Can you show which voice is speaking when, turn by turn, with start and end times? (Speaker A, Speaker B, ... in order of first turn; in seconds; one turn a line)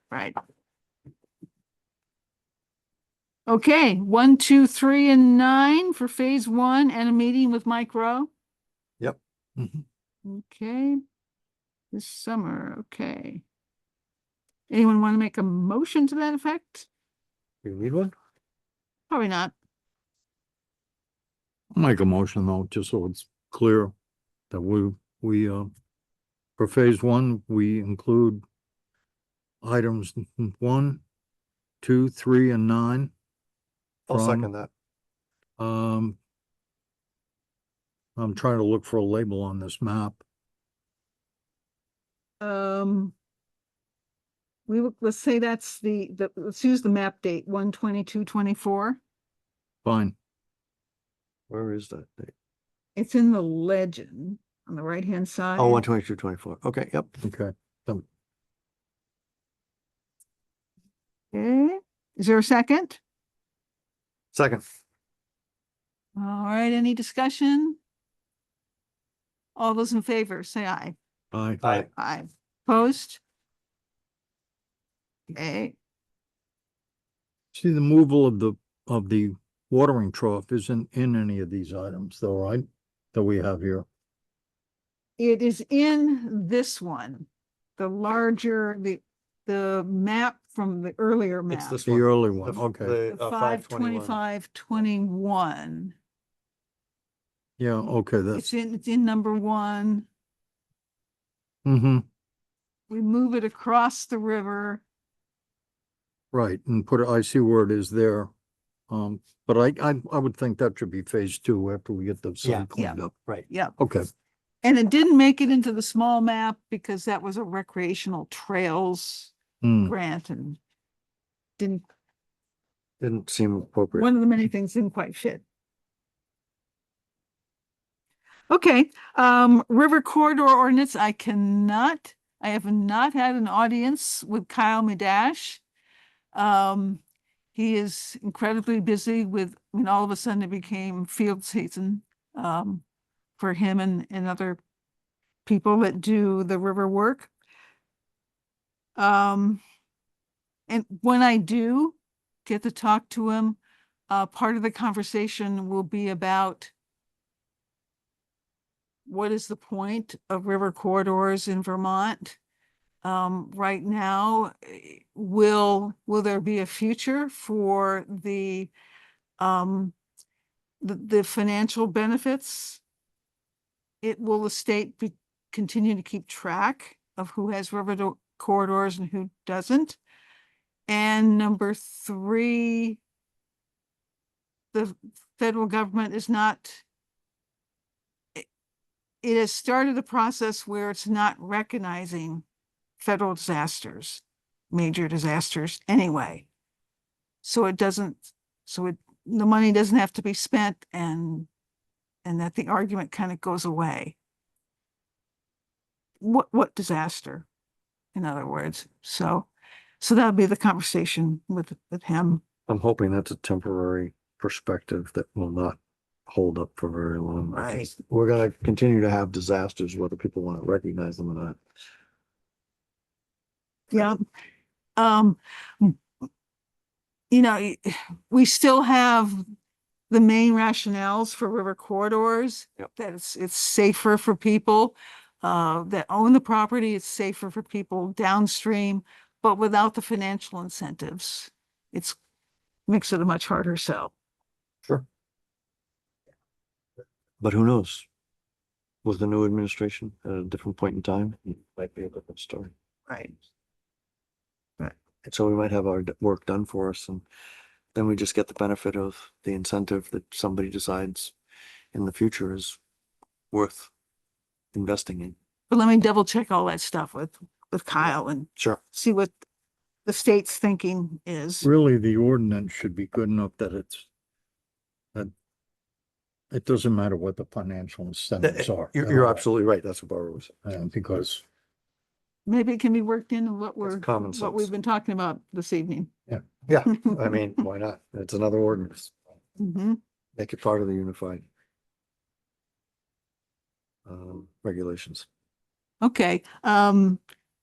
Speaker A: 3.5-8.3
Speaker B: 9.6-9.8
Speaker A: 10.2-11.0
Speaker A: 11.9-13.4
Speaker A: 14.7-16.9
Speaker C: 17.6-18.1
Speaker A: 19.1-19.5
Speaker B: 21.7-23.9
Speaker B: 24.5-25.7
Speaker B: 26.6-28.4
Speaker B: 29.6-31.0
Speaker B: 31.8-33.1
Speaker C: 34.1-34.7
Speaker B: 34.1-34.5
Speaker B: 35.6-36.2
Speaker B: 38.1-40.2
Speaker A: 42.4-43.1
Speaker A: 44.7-49.0
Speaker B: 49.8-50.1
Speaker C: 51.5-52.3
Speaker A: 53.0-55.8
Speaker C: 55.5-57.1
Speaker B: 57.2-58.0
Speaker A: 61.3-63.0
Speaker C: 64.3-64.6
Speaker A: 66.2-67.8
Speaker A: 69.5-71.0
Speaker B: 71.3-71.7
Speaker A: 71.7-73.2
Speaker A: 75.3-75.8
Speaker B: 77.5-83.9
Speaker A: 85.2-91.8
Speaker C: 91.5-94.2
Speaker B: 91.8-93.0
Speaker A: 93.1-95.9
Speaker B: 97.6-98.5
Speaker A: 98.3-100.1
Speaker B: 101.6-102.0
Speaker A: 102.9-104.8
Speaker B: 106.3-108.3
Speaker B: 108.9-113.1
Speaker C: 112.4-112.7
Speaker A: 113.5-113.7
Speaker B: 113.8-114.0
Speaker A: 114.6-119.3
Speaker B: 119.6-119.9
Speaker A: 119.8-120.6
Speaker A: 121.6-121.8
Speaker C: 123.0-124.1
Speaker A: 123.9-125.4
Speaker A: 128.5-135.6
Speaker A: 136.3-137.0
Speaker A: 137.5-142.8
Speaker A: 143.4-144.6
Speaker A: 145.4-147.3
Speaker A: 148.9-149.6
Speaker A: 150.7-153.6
Speaker A: 154.1-156.7
Speaker A: 159.0-162.4
Speaker A: 163.0-168.7
Speaker A: 169.4-169.9
Speaker A: 170.8-172.8
Speaker A: 174.0-180.0
Speaker A: 180.9-183.0
Speaker A: 184.7-186.8
Speaker A: 189.2-192.4
Speaker A: 193.0-196.4
Speaker A: 197.4-201.5
Speaker A: 202.2-204.2
Speaker A: 206.2-207.5
Speaker A: 208.1-209.5
Speaker A: 210.0-212.4
Speaker C: 212.7-221.6
Speaker A: 217.5-217.9
Speaker A: 223.9-224.2
Speaker A: 224.9-226.0
Speaker A: 227.3-229.4
Speaker A: 230.1-242.2
Speaker A: 242.9-244.1
Speaker C: 247.4-248.1
Speaker C: 249.0-252.7
Speaker A: 253.1-253.3
Speaker C: 255.2-257.2
Speaker C: 257.9-261.3
Speaker C: 261.9-262.8
Speaker C: 263.5-263.9
Speaker C: 264.7-265.3
Speaker A: 265.7-269.3
Speaker A: 270.0-271.7
Speaker B: 271.6-274.1
Speaker B: 276.5-279.4
Speaker C: 278.4-280.5
Speaker B: 280.6-281.4
Speaker A: 282.4-286.1
Speaker C: 283.8-284.7
Speaker C: 286.7-289.1
Speaker A: 289.6-290.0
Speaker C: 290.4-291.4
Speaker C: 294.1-295.2
Speaker A: 296.0-297.2